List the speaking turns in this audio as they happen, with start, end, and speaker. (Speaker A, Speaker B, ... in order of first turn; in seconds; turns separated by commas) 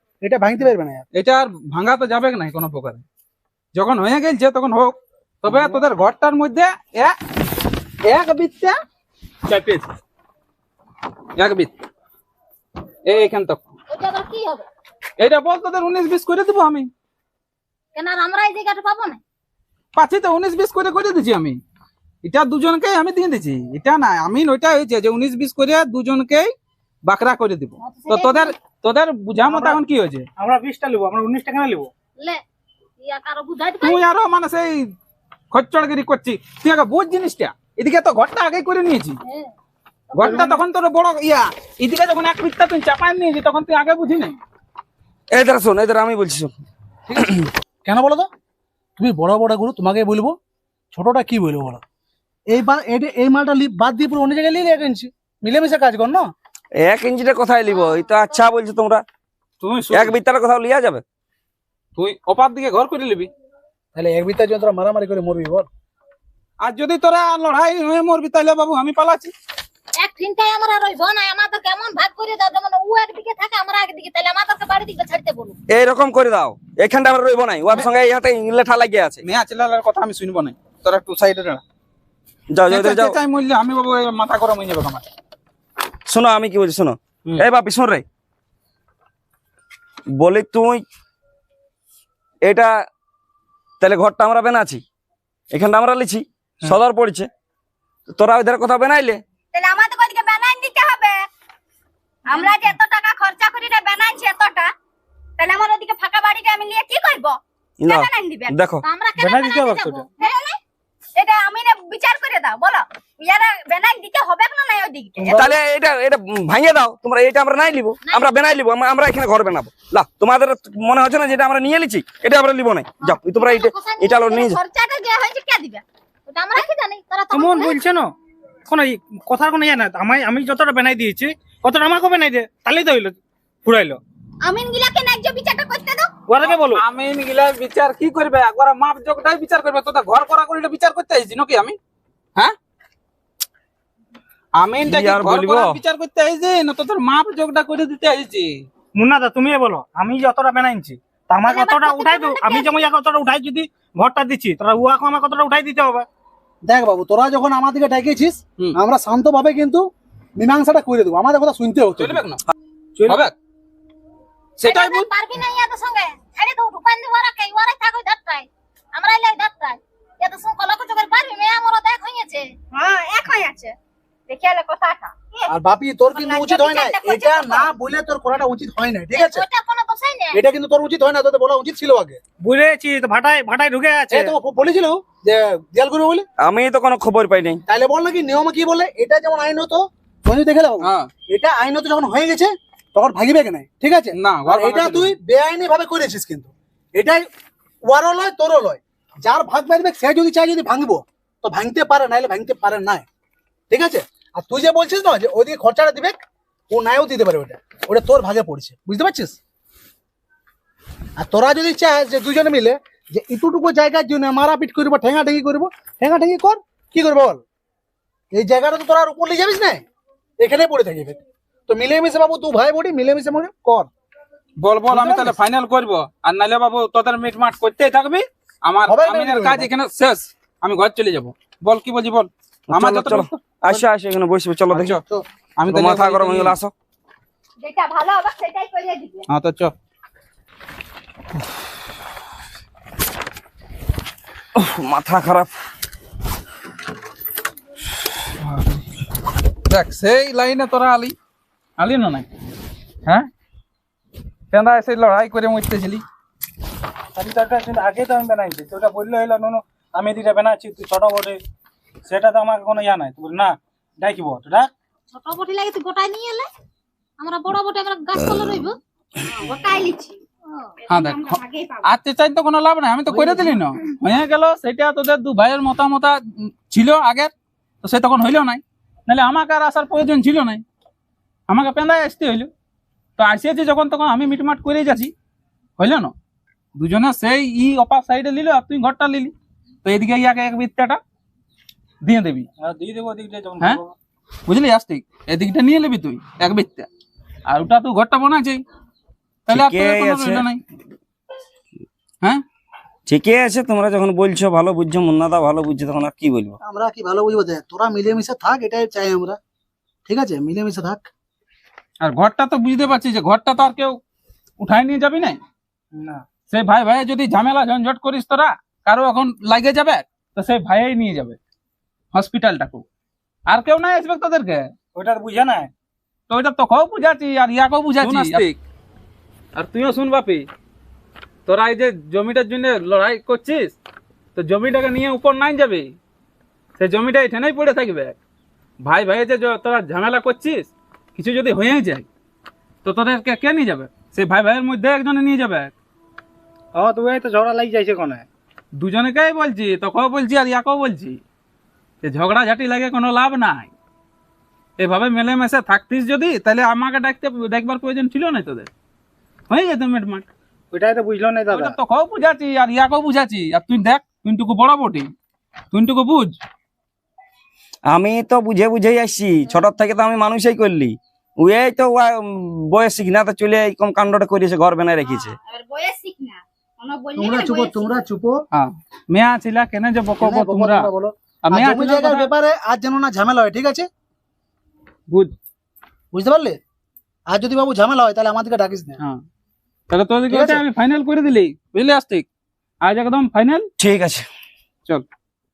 Speaker A: 0.2-1.0, Speaker B: 1.1-3.0, Speaker B: 3.7-7.2, Speaker B: 8.1-8.8, Speaker B: 9.4-9.9, Speaker B: 11.4-11.7, Speaker B: 13.1-13.7, Speaker C: 13.9-14.7, Speaker B: 15.2-16.9, Speaker C: 17.9-19.2, Speaker B: 19.9-21.6, Speaker B: 22.2-30.3, Speaker C: 27.8-28.5, Speaker D: 29.4-29.8, Speaker D: 30.4-31.9, Speaker C: 33.0-34.0, Speaker B: 33.8-34.9, Speaker B: 35.5-39.2, Speaker C: 39.2-39.5, Speaker C: 40.1-40.4, Speaker D: 40.2-40.6, Speaker B: 40.2-44.4, Speaker E: 45.3-46.5, Speaker E: 47.1-47.5, Speaker A: 47.8-48.3, Speaker A: 49.0-50.4, Speaker A: 50.9-51.8, Speaker A: 52.5-56.3, Speaker E: 56.8-59.0, Speaker C: 57.7-58.4, Speaker B: 59.6-60.1, Speaker E: 59.9-61.0, Speaker B: 62.0-63.3, Speaker A: 63.9-65.7, Speaker B: 66.6-69.3, Speaker C: 70.0-75.6, Speaker E: 75.7-79.2, Speaker B: 79.2-81.6, Speaker E: 82.5-83.2, Speaker B: 82.7-85.0, Speaker E: 86.1-88.0, Speaker E: 90.2-90.8, Speaker E: 92.4-92.7, Speaker E: 93.8-94.8, Speaker E: 95.5-97.3, Speaker E: 98.1-99.2, Speaker F: 99.5-101.2, Speaker F: 102.3-104.7, Speaker F: 105.4-108.5, Speaker E: 107.8-108.8, Speaker C: 108.8-110.0, Speaker D: 109.2-110.1, Speaker F: 110.2-110.6, Speaker F: 111.2-115.2, Speaker D: 115.2-115.5, Speaker E: 115.3-124.6, Speaker C: 118.1-118.5, Speaker C: 123.0-124.1, Speaker F: 124.2-125.8, Speaker C: 126.3-127.7, Speaker D: 127.3-128.1, Speaker D: 128.7-134.0, Speaker F: 134.4-136.1, Speaker D: 136.3-136.8, Speaker B: 136.4-141.8, Speaker B: 144.6-148.7, Speaker E: 144.8-145.8, Speaker D: 149.0-156.1, Speaker C: 151.4-152.8, Speaker A: 156.6-159.8, Speaker A: 160.4-162.2, Speaker B: 162.0-162.4, Speaker D: 162.9-163.2, Speaker B: 163.1-163.3, Speaker B: 164.6-165.1, Speaker C: 164.6-172.5, Speaker F: 172.7-173.8, Speaker F: 174.3-175.5, Speaker A: 175.5-179.4, Speaker F: 176.1-177.7, Speaker C: 179.1-180.4, Speaker A: 180.3-182.2, Speaker D: 182.4-184.3, Speaker A: 184.1-186.2, Speaker E: 186.4-187.6, Speaker A: 187.7-197.3, Speaker B: 194.1-195.1, Speaker A: 197.8-203.1, Speaker A: 203.7-206.2, Speaker A: 206.7-209.4, Speaker A: 211.2-217.4, Speaker A: 218.3-219.8, Speaker A: 220.4-223.9, Speaker B: 224.6-233.4, Speaker A: 224.9-225.3, Speaker A: 228.9-229.7, Speaker E: 232.7-235.0, Speaker B: 234.7-235.0, Speaker B: 235.6-236.5, Speaker E: 235.7-236.7, Speaker F: 237.6-239.2, Speaker B: 239.3-239.7, Speaker E: 244.5-245.5, Speaker B: 248.4-248.8, Speaker B: 249.7-251.2, Speaker B: 251.8-252.3, Speaker B: 254.5-256.0, Speaker D: 257.1-261.4, Speaker D: 262.1-264.7, Speaker C: 265.1-266.5, Speaker C: 267.2-268.8, Speaker F: 269.2-270.2, Speaker C: 270.5-270.8, Speaker B: 270.9-280.6, Speaker F: 270.9-271.9, Speaker A: 273.1-273.6, Speaker B: 281.5-282.5, Speaker B: 283.2-285.1, Speaker B: 285.8-286.1, Speaker B: 286.8-291.0, Speaker B: 292.0-292.5, Speaker D: 292.6-293.9, Speaker B: 294.4-296.9, Speaker B: 297.5-298.6, Speaker E: 299.5-300.4, Speaker B: 299.5-300.6, Speaker E: 303.1-306.6, Speaker A: 306.6-309.4, Speaker A: 310.1-311.1, Speaker B: 312.0-314.0, Speaker B: 314.6-315.4, Speaker D: 315.9-316.2, Speaker B: 316.5-321.4, Speaker B: 322.1-322.8, Speaker B: 323.5-324.7, Speaker D: 324.9-325.7, Speaker B: 326.3-328.6, Speaker B: 329.5-330.5, Speaker B: 331.4-333.8, Speaker B: 334.4-335.9, Speaker B: 336.8-338.2, Speaker B: 338.8-342.1, Speaker B: 342.8-345.7, Speaker D: 346.7-348.2, Speaker B: 348.7-351.2, Speaker B: 352.0-353.7, Speaker B: 354.8-358.7, Speaker B: 359.5-360.2, Speaker D: 360.7-361.8, Speaker B: 361.5-365.1, Speaker B: 365.7-366.4, Speaker E: 367.9-375.4, Speaker F: 375.1-377.9, Speaker A: 377.2-378.4, Speaker B: 378.5-380.9, Speaker A: 380.2-383.9, Speaker B: 381.5-382.0, Speaker B: 385.1-385.3, Speaker A: 386.1-386.6, Speaker A: 387.3-389.0, Speaker B: 389.0-389.2, Speaker B: 389.9-392.2, Speaker A: 390.3-390.6, Speaker B: 392.8-393.7, Speaker E: 393.8-394.3